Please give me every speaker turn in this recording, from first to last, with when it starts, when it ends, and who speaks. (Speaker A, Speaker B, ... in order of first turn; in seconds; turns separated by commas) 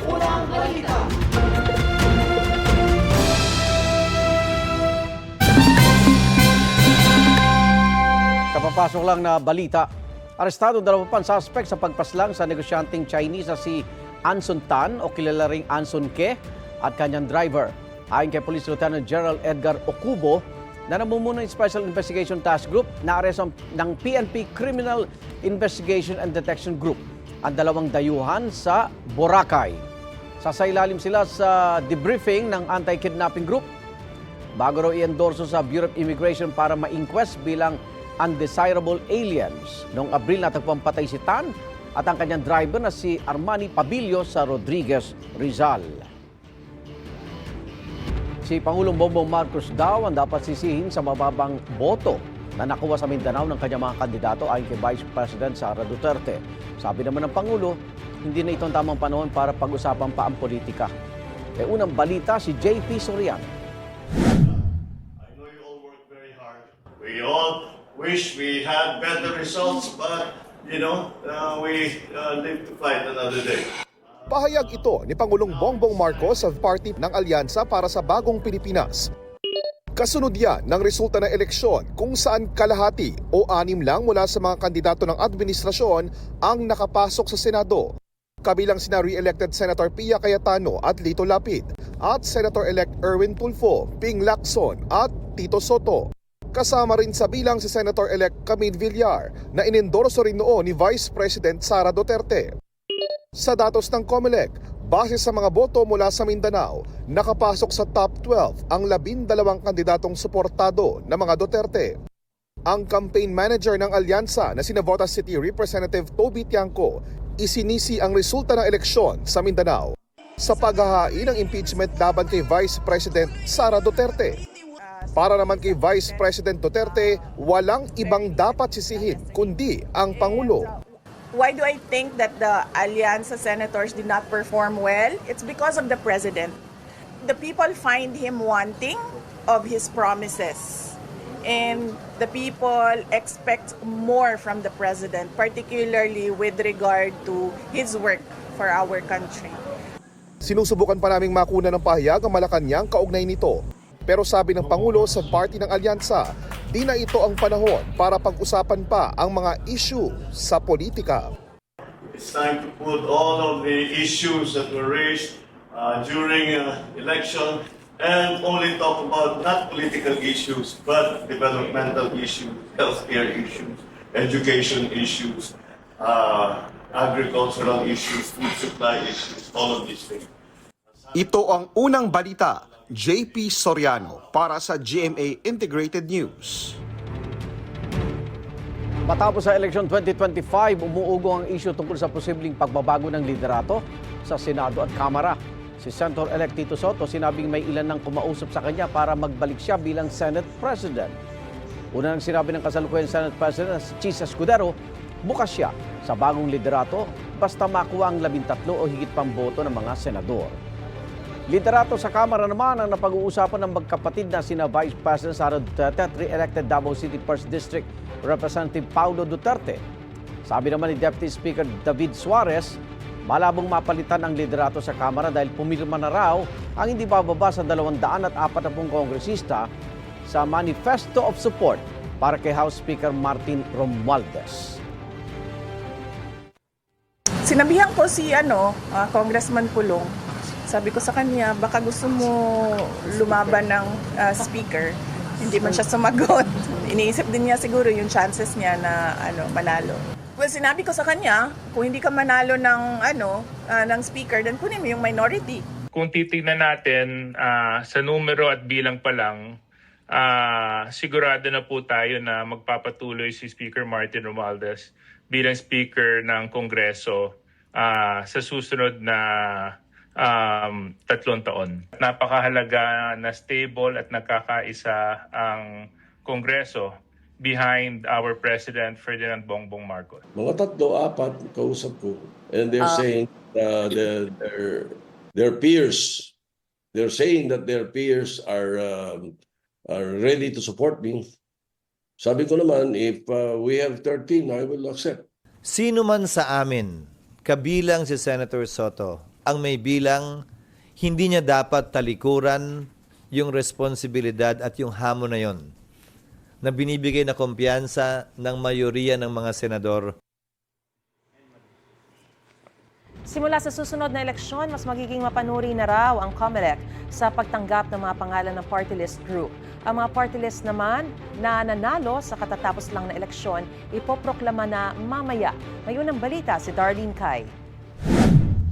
Speaker A: 8.5-29.8, Speaker A: 30.4-33.7, Speaker A: 34.6-46.1, Speaker A: 48.4-60.9, Speaker A: 61.6-63.5, Speaker B: 65.3-73.7, Speaker C: 74.3-79.1, Speaker C: 79.9-87.9, Speaker C: 88.4-102.5, Speaker C: 103.3-112.0, Speaker C: 112.7-124.4, Speaker D: 124.8-136.6, Speaker C: 125.2-130.7, Speaker D: 137.2-149.6, Speaker C: 150.4-161.3, Speaker B: 162.1-180.3, Speaker C: 181.1-186.8, Speaker A: 189.1-201.1, Speaker A: 201.9-210.6, Speaker A: 211.5-219.8, Speaker A: 220.5-229.7, Speaker A: 230.3-234.8, Speaker D: 237.4-240.1, Speaker D: 240.7-255.7, Speaker E: 255.9-259.6, Speaker E: 260.1-280.2, Speaker F: 280.3-286.3, Speaker F: 286.9-289.4, Speaker F: 289.9-291.3, Speaker F: 292.2-295.2, Speaker G: 295.7-300.4, Speaker G: 301.0-305.7, Speaker G: 306.6-310.1, Speaker H: 313.3-327.5